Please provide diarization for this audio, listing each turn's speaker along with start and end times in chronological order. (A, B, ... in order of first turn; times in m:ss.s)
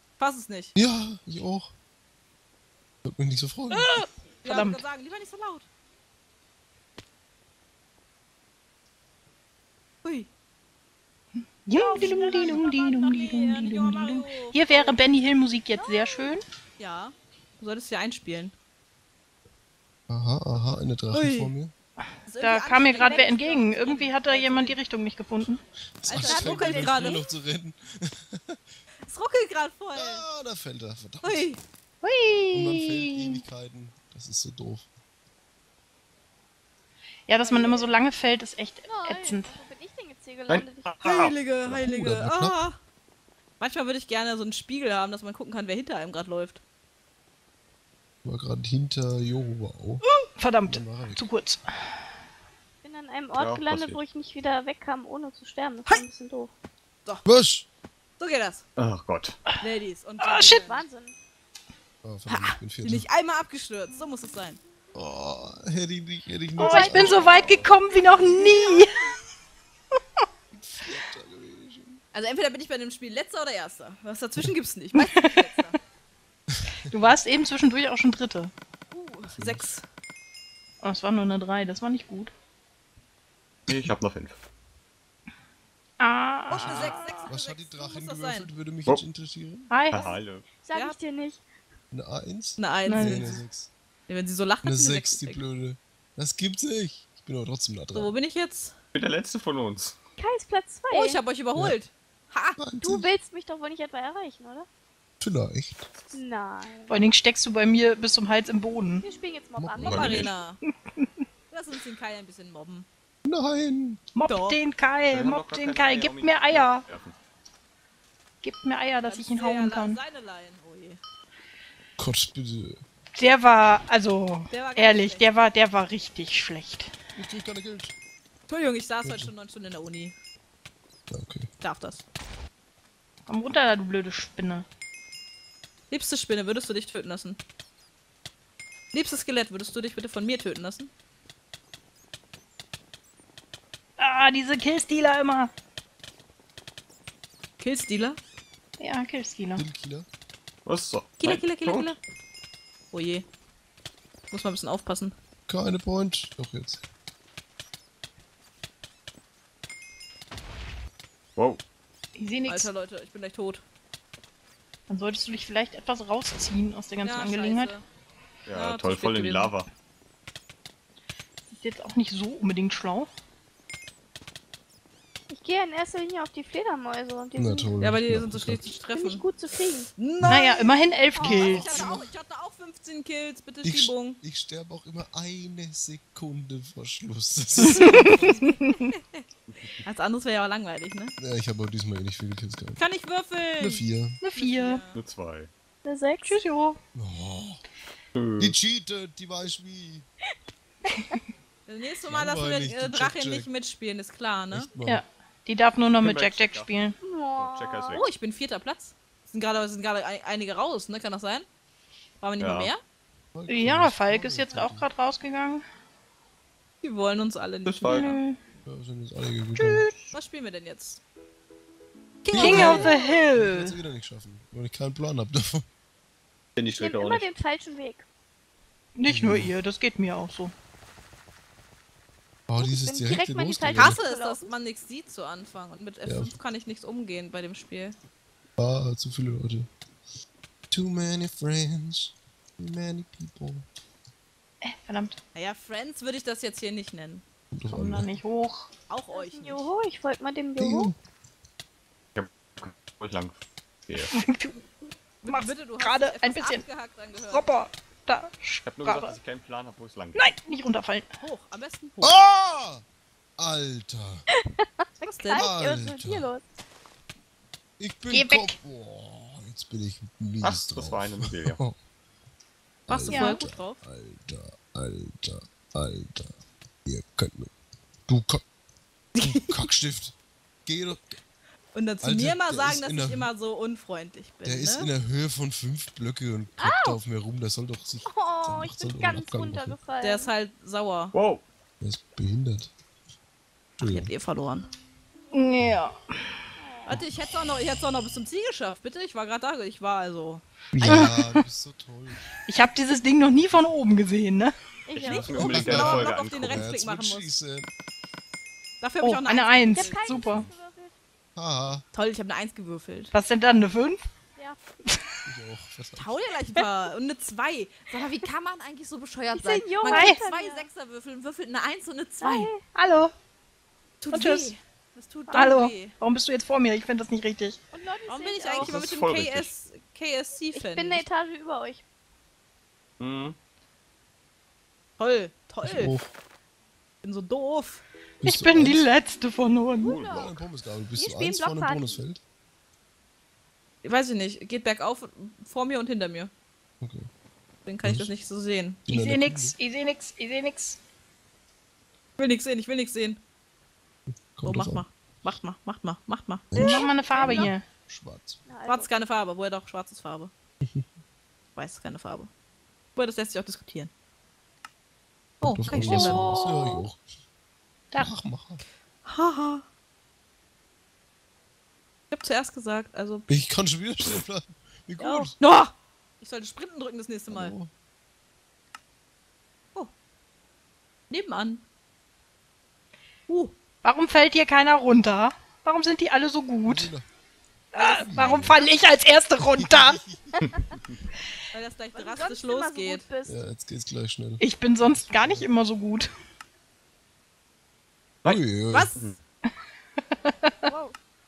0:00.2-0:00.7 A
0:00.8-0:01.7 B
0:03.0-0:04.0 B
0:03.9-0:04.8 C
0:04.4-0:05.7 A
0:10.0-0:10.3 A
0:11.6-0:16.4 C
0:11.8-0:15.0 A
0:12.0-0:12.5 D
0:15.8-0:16.3 D
0:16.8-0:18.5 A
0:20.1-0:21.7 B
0:21.1-0:21.5 A
0:22.2-0:24.8 A
0:22.4-0:25.6 C
0:26.0-0:28.6 B
0:26.0-0:27.2 A
0:26.2-0:27.2 D
0:29.0-0:30.2 A
0:30.0-0:31.5 B
0:31.2-0:31.6 A
0:32.0-0:33.4 C
0:32.5-0:34.9 B
0:37.3-0:39.6 C
0:37.4-0:38.0 A
0:38.9-0:41.0 D
0:40.5-0:41.3 E
0:41.0-0:42.8 A
0:41.6-0:42.6 B
0:43.6-0:46.6 A
0:48.2-0:50.0 B
0:50.3-0:51.6 C
0:50.6-0:51.2 B
0:52.8-0:56.5 D
0:53.4-0:54.0 E
0:57.2-0:57.6 B
0:58.2-0:58.6 A
0:58.8-0:59.4 E
0:59.6-1:00.9 A
1:00.2-1:00.6 C
1:00.5-1:01.1 D
1:02.0-1:03.1 B
1:02.3-1:04.6 A
1:04.9-1:07.7 B
1:06.6-1:07.5 D
1:06.6-1:09.1 C
1:10.5-1:12.0 B
1:12.1-1:15.8 A
1:15.0-1:15.6 C
1:16.5-1:17.1 B
1:16.9-1:18.5 C
1:18.9-1:19.9 A
1:19.4-1:19.6 B
1:20.8-1:22.3 C
1:23.7-1:24.4 E
1:26.0-1:27.3 C
1:26.5-1:29.7 B
1:26.5-1:28.5 A
1:29.7-1:30.2 C
1:29.9-1:30.5 E
1:30.0-1:31.4 D
1:31.9-1:33.7 B
1:32.6-1:33.4 A
1:32.9-1:33.3 C
1:34.1-1:35.4 A
1:34.6-1:38.1 B
1:37.9-1:38.8 A
1:38.9-1:40.0 E
1:40.2-1:41.2 D
1:40.9-1:42.6 A
1:42.6-1:43.1 B
1:42.8-1:44.6 D
1:45.2-1:45.9 B
1:46.1-1:47.0 D
1:46.9-1:49.1 C
1:49.0-1:50.3 D
1:49.6-1:50.2 B
1:49.8-1:50.3 E
1:49.8-1:50.6 A
1:51.5-1:52.9 A
1:53.2-1:54.0 B
1:54.1-1:56.9 C
1:54.3-1:54.6 A
1:55.1-1:57.1 E
1:58.4-2:00.0 C
1:59.0-2:01.0 A
2:02.0-2:02.8 B
2:03.1-2:06.9 C
2:04.5-2:05.4 A
2:07.1-2:08.0 B
2:08.5-2:10.1 A
2:09.0-2:09.3 B
2:11.1-2:11.5 B
2:11.6-2:12.0 A
2:13.3-2:14.6 C
2:15.9-2:17.4 A
2:18.9-2:20.9 A
2:24.0-2:25.5 C
2:27.6-2:28.2 A
2:28.8-2:29.6 C
2:29.6-2:30.1 B
2:30.6-2:31.9 E
2:31.2-2:32.0 A
2:32.9-2:33.3 A
2:34.3-2:35.1 A
2:35.5-2:36.8 B
2:41.4-2:41.6 E
2:42.2-2:42.7 C
2:42.5-2:43.6 A
2:44.9-2:47.8 C
2:47.0-2:47.8 A
2:48.5-2:49.7 E
2:48.5-2:49.5 A
2:51.5-2:53.1 C
2:55.3-2:57.8 D
2:57.4-2:58.7 B
2:57.8-2:59.3 A
2:58.9-2:59.9 D
3:00.0-3:04.2 A
3:00.2-3:01.8 C
3:01.2-3:01.6 D
3:01.2-3:02.1 B
3:03.6-3:08.4 B
3:07.6-3:09.2 A
3:07.6-3:08.9 C
3:09.5-3:09.8 E
3:09.8-3:11.1 A
3:11.2-3:12.8 B
3:12.8-3:13.8 A
3:13.6-3:14.2 B
3:14.2-3:14.8 C
3:14.4-3:15.0 A
3:15.0-3:15.5 E
3:15.8-3:16.4 D
3:16.2-3:16.8 C
3:16.9-3:17.6 B
3:18.1-3:18.6 E
3:18.4-3:20.1 B
3:20.9-3:21.2 D
3:21.7-3:24.7 A
3:22.1-3:23.5 B
3:24.5-3:25.0 B
3:24.8-3:27.0 C
3:26.0-3:26.7 E
3:27.0-3:28.1 D
3:27.4-3:28.1 E
3:27.9-3:31.5 A
3:32.2-3:32.8 A
3:32.4-3:32.7 E
3:33.3-3:34.9 B
3:33.5-3:35.6 C
3:36.8-3:38.2 A
3:37.6-3:38.1 E
3:37.9-3:38.4 C
3:38.6-3:39.9 B
3:39.6-3:40.1 C
3:40.1-3:41.0 A
3:42.2-3:42.9 A
3:42.3-3:45.6 B
3:42.4-3:43.8 C
3:42.4-3:43.2 D
3:46.6-3:47.3 E
3:46.7-3:48.0 D
3:49.0-3:50.5 C
3:49.1-3:49.6 B
3:52.5-3:54.0 B
3:52.6-3:54.5 D
3:53.8-3:58.0 A
3:56.0-3:56.4 B
3:58.6-3:59.7 B
4:00.7-4:03.6 B
4:04.6-4:05.2 C
4:05.3-4:07.2 A
4:07.5-4:08.1 B
4:07.7-4:08.7 C
4:08.9-4:09.7 A
4:09.1-4:10.9 D
4:10.6-4:10.9 B
4:12.1-4:14.1 E
4:14.0-4:14.7 C
4:15.2-4:16.6 C
4:15.2-4:17.5 A
4:17.2-4:19.2 C
4:18.6-4:20.3 E
4:20.2-4:21.1 C
4:21.2-4:22.2 A
4:22.0-4:22.8 B
4:23.4-4:24.3 B
4:24.3-4:26.5 D
4:25.0-4:25.5 A
4:25.3-4:26.3 B
4:27.8-4:31.8 B
4:28.1-4:28.6 C
4:30.4-4:31.6 E
4:32.9-4:33.8 A
4:32.9-4:37.5 B
4:33.1-4:33.4 C
4:38.1-4:38.4 B
4:39.1-4:39.6 A
4:39.2-4:41.2 B
4:41.7-4:44.9 A
4:42.0-4:43.3 B
4:44.4-4:49.8 B
4:46.6-4:47.0 D
4:48.0-4:50.3 D
4:50.0-4:51.1 A
4:51.1-4:51.4 E
4:51.8-4:52.7 B
4:53.8-4:54.1 B
4:53.8-4:54.7 A
4:55.3-4:56.4 C
4:56.6-4:57.0 D
4:56.8-5:00.4 A
5:00.7-5:02.2 B
5:00.8-5:01.4 C
5:02.4-5:04.6 C
5:04.9-5:05.5 D
5:04.9-5:06.6 E
5:05.0-5:07.3 A
5:05.4-5:07.7 B
5:08.8-5:10.4 A
5:09.0-5:10.5 C
5:09.7-5:10.9 D
5:10.2-5:10.5 B
5:11.4-5:11.8 B
5:11.9-5:13.1 A
5:13.1-5:14.0 C
5:14.9-5:15.3 C
5:15.3-5:16.1 B
5:16.0-5:22.5 A
5:19.4-5:20.7 D
5:19.9-5:20.2 C
5:22.2-5:22.6 D
5:22.8-5:23.1 C
5:24.0-5:25.9 A
5:24.1-5:24.5 C
5:25.3-5:27.6 C
5:27.7-5:28.8 D
5:28.1-5:31.1 A
5:28.6-5:29.5 E
5:30.5-5:31.8 D
5:33.0-5:33.4 E
5:35.0-5:36.0 A
5:35.6-5:36.1 B
5:37.0-5:37.8 A
5:38.2-5:38.9 B
5:38.2-5:40.0 C
5:39.8-5:40.3 E
5:39.8-5:40.4 D
5:40.0-5:42.2 B
5:41.0-5:42.0 D
5:43.8-5:46.3 A
5:46.8-5:47.1 B
5:47.6-5:48.8 A
5:47.8-5:48.1 B
5:48.9-5:49.6 B
5:48.9-5:50.8 C
5:52.2-5:53.2 A
5:54.1-5:54.8 B
5:54.4-5:56.8 A
5:56.5-5:58.4 B
5:56.6-5:57.6 C
5:56.6-5:57.5 D
5:58.4-5:58.9 D
5:58.6-6:00.3 A
6:00.6-6:00.9 B
6:01.6-6:02.3 A
6:02.9-6:03.9 A
6:05.4-6:06.3 A
6:05.4-6:07.0 B
6:05.8-6:06.8 D
6:08.0-6:08.6 B
6:09.0-6:09.6 A
6:12.1-6:13.3 A
6:13.3-6:15.4 B
6:15.0-6:15.3 D
6:15.4-6:17.5 A
6:17.3-6:17.7 B
6:21.1-6:21.6 A
6:23.3-6:23.6 A
6:23.8-6:26.9 C
6:26.6-6:27.1 B
6:27.7-6:30.0 C
6:27.8-6:28.6 B
6:28.2-6:28.5 A
6:29.4-6:30.5 B
6:30.4-6:31.0 E
6:31.5-6:33.1 A
6:31.9-6:33.4 D
6:33.3-6:35.5 B
6:34.4-6:36.1 C
6:38.2-6:38.9 B
6:38.7-6:39.1 A
6:40.6-6:40.9 D